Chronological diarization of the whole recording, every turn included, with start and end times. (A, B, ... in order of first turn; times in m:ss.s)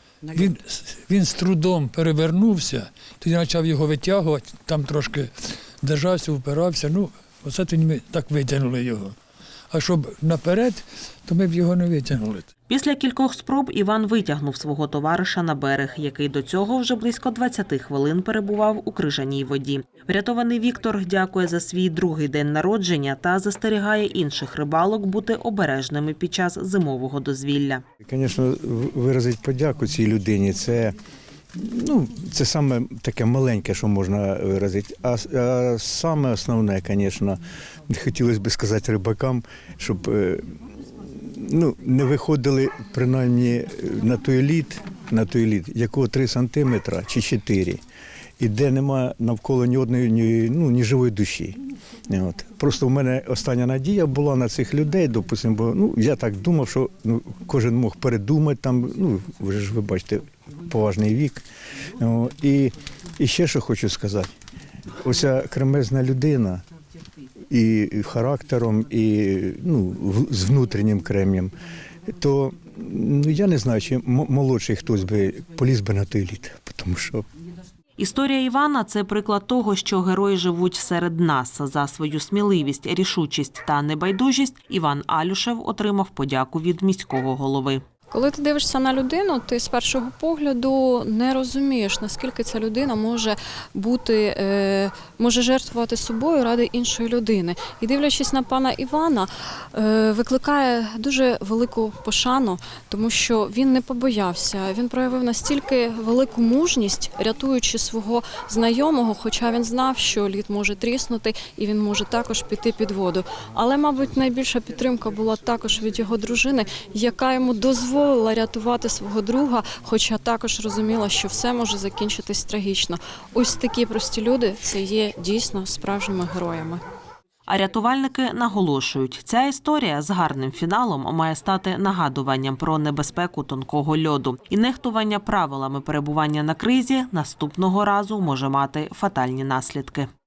0:00.3-0:05.3 A
0:05.8-0:09.2 A
0:09.7-0:12.5 A
0:12.7-0:27.8 B
0:28.0-0:31.0 C
0:31.5-0:47.8 C
0:48.4-1:04.3 C
1:05.0-1:06.6 C
1:07.5-1:11.5 C
1:12.1-1:17.2 C
1:18.0-1:27.8 B
1:28.1-2:06.8 D
2:07.5-2:20.1 B